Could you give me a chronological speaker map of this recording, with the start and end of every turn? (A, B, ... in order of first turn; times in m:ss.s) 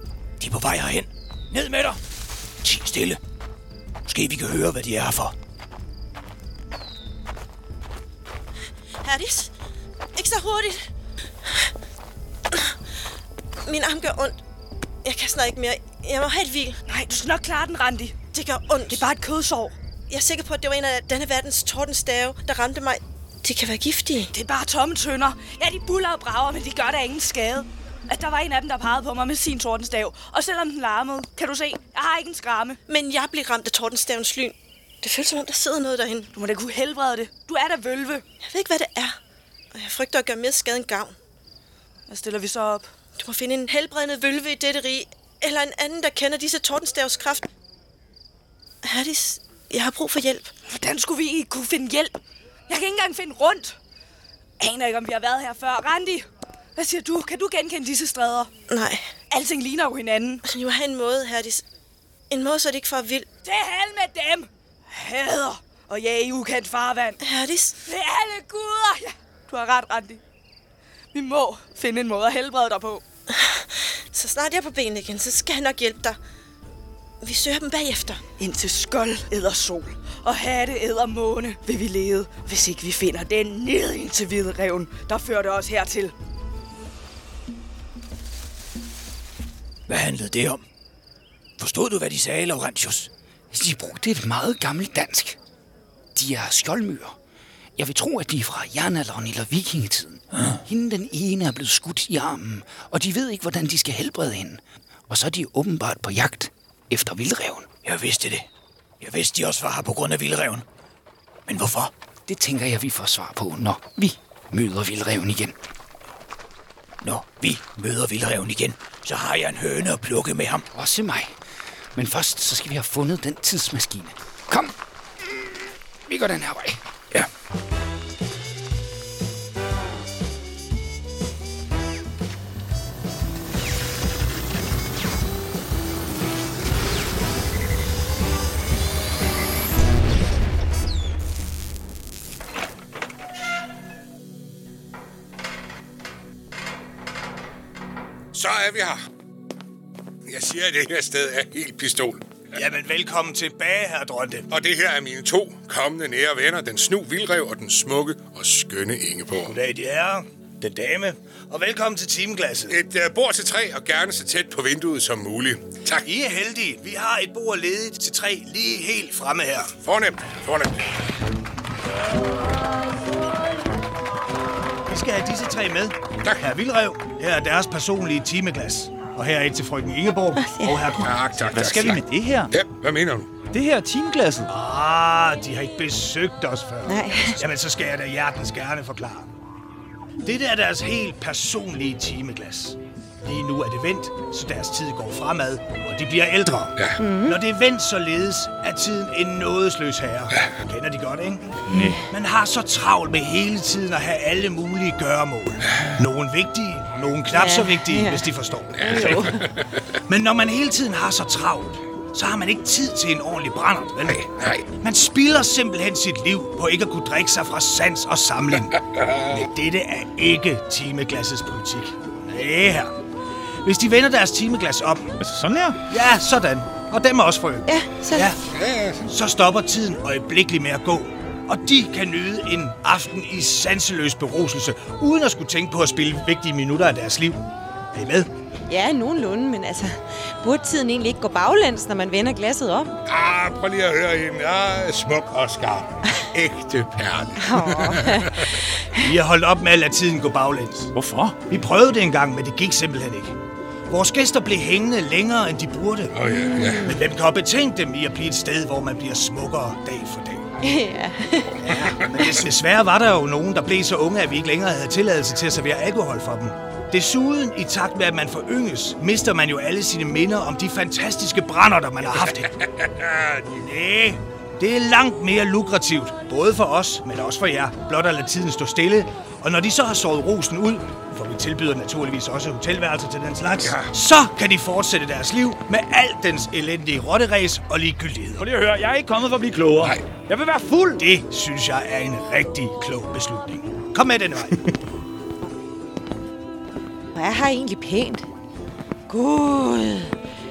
0:00.4-0:02.0 A
0:02.6-0:03.2 A
0:04.1-0:05.3 A
0:09.0-0:09.5 B
0:10.2-0:10.8 B
0:13.6-0:14.4 B
0:15.0-0:16.8 B
0:16.9-0:18.2 C
0:18.3-0:19.0 B
0:18.9-0:19.7 C
0:20.1-0:24.3 B
0:24.3-0:32.8 C
0:32.9-0:36.3 B
0:36.3-0:38.2 C
0:38.4-0:39.2 B
0:39.7-0:41.2 B
0:42.1-0:42.9 C
0:43.2-0:47.5 B
0:48.8-0:50.5 B
0:50.7-0:53.8 C
0:54.6-0:58.5 C
0:58.7-0:59.1 B
0:59.3-1:00.4 C
1:00.4-1:01.6 B
1:02.3-1:03.3 B
1:03.4-1:07.2 C
1:07.2-1:07.8 B
1:07.8-1:10.2 C
1:11.1-1:13.0 C
1:13.3-1:16.2 B
1:17.2-1:18.2 B
1:18.4-1:26.1 C
1:29.9-1:30.6 A
1:31.6-1:33.1 A
1:33.5-1:35.4 D
1:36.1-1:37.2 D
1:37.8-1:47.7 D
1:40.3-1:40.6 A
1:47.8-1:48.4 A
1:49.0-1:50.6 A
1:51.5-1:51.9 A
1:52.3-1:55.6 D
1:57.0-2:00.6 A
2:00.7-2:01.4 D
2:01.9-2:06.8 D
2:28.3-2:29.0 E
2:30.2-2:32.4 E
2:32.5-2:34.4 F
2:34.5-2:39.6 E
2:39.4-2:42.8 F
2:42.7-2:46.1 E
2:46.0-2:49.7 F
2:49.7-2:50.9 E
2:54.9-3:01.2 F
2:56.2-2:56.5 E
3:00.4-3:01.0 G
3:01.0-3:03.3 E
3:01.4-3:02.5 H
3:03.5-3:04.5 H
3:04.5-3:09.3 F
3:06.9-3:07.4 G
3:10.2-3:21.6 F
3:17.0-3:17.4 G
3:21.7-3:22.0 H
3:21.7-3:22.0 G
3:22.1-3:29.2 F
3:27.3-3:29.4 G
3:28.7-3:30.0 E
3:30.1-3:34.2 F
3:34.0-3:34.7 E
3:34.8-3:38.8 F
3:38.8-3:39.5 E
3:39.3-3:42.9 F
3:43.6-3:45.2 F
3:45.2-3:45.8 H
3:45.9-3:48.4 F
3:47.6-3:48.4 G
3:48.4-3:49.1 E
3:49.1-3:57.4 F
3:57.9-3:58.3 F
3:58.7-4:02.9 G
4:03.0-4:08.6 E
4:07.4-4:09.0 G
4:09.0-4:10.9 F
4:10.9-4:11.5 H
4:11.5-4:13.3 F
4:13.9-4:16.1 F
4:16.1-4:17.0 E
4:16.3-4:17.0 G
4:16.8-4:20.5 F
4:20.6-4:21.9 G
4:21.6-4:32.5 F
4:21.7-4:22.3 E
4:32.2-4:33.6 E
4:33.5-4:48.4 F
4:43.6-4:43.9 E
4:48.4-4:51.0 H
4:49.8-4:50.0 E
4:51.0-4:54.6 F
4:57.1-4:58.3 G
4:59.1-5:00.1 G